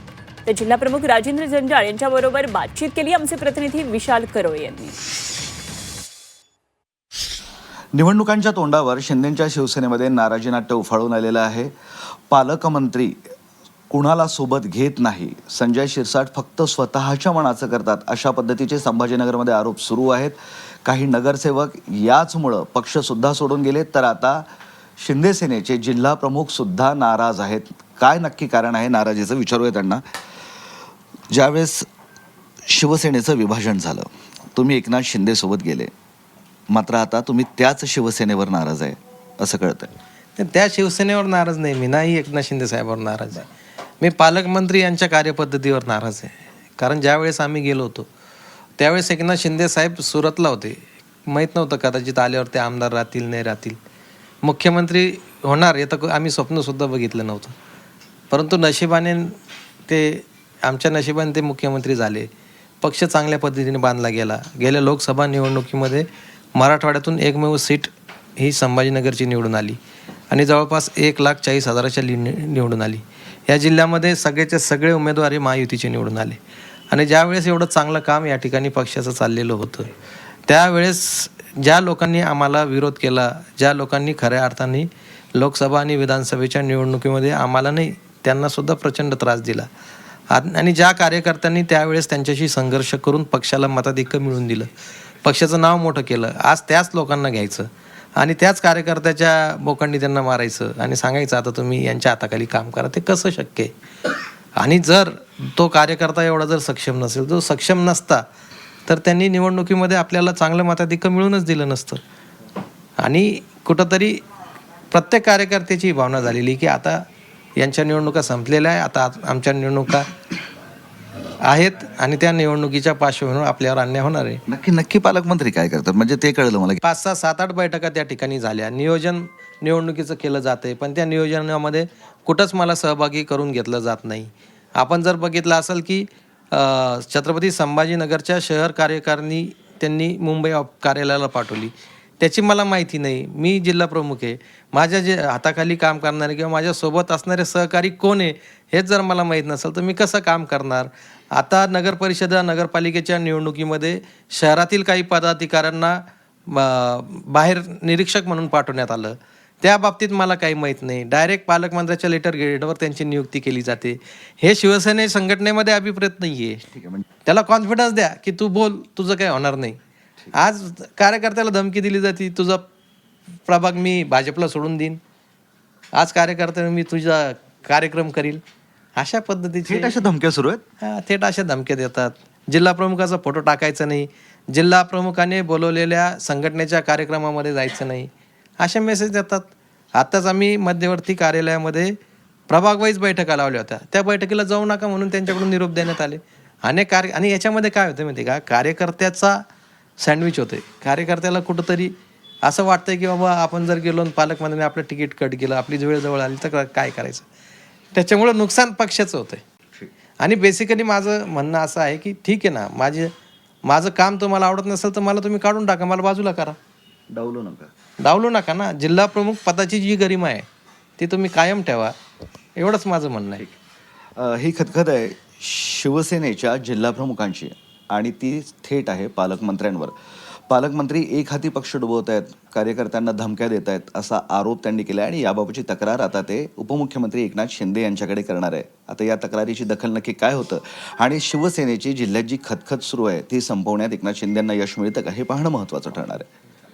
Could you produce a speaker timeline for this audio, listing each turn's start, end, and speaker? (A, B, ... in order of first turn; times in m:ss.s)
0:00.4-0:05.0 A
0:07.9-0:11.7 B
0:12.3-0:13.2 B
0:13.9-0:24.4 B
0:25.0-0:30.0 B
0:31.3-0:31.9 B
0:32.7-0:35.9 B
0:36.7-0:39.9 B
0:40.4-0:43.5 C
0:44.0-0:48.1 C
0:48.8-0:53.8 C
0:54.4-0:57.6 C
0:58.3-1:02.3 C
1:02.8-1:09.8 C
1:10.3-1:16.4 C
1:16.9-1:19.9 C
1:20.5-1:29.7 C
1:30.3-1:34.7 C
1:35.2-1:43.7 C
1:44.6-1:48.2 C
1:48.8-1:52.0 C
1:53.0-1:54.2 C
1:54.9-1:57.0 C
1:57.6-2:00.1 C
2:01.4-2:04.4 C
2:04.5-2:06.8 B
2:06.8-2:46.6 C
2:46.7-2:47.0 B
2:47.2-2:49.8 C
2:50.3-2:52.6 C
2:53.5-2:55.0 C
2:55.9-2:58.4 C
2:59.0-3:00.0 C
2:59.7-3:00.6 B
3:00.8-3:19.4 C
3:20.0-3:27.2 C
3:27.9-3:29.4 C
3:30.2-3:33.1 C
3:33.6-3:36.6 C
3:37.1-3:37.7 B
3:38.0-3:40.5 C
3:41.0-3:41.9 C
3:42.6-3:43.4 C
3:44.2-3:49.9 B
3:50.5-4:06.3 B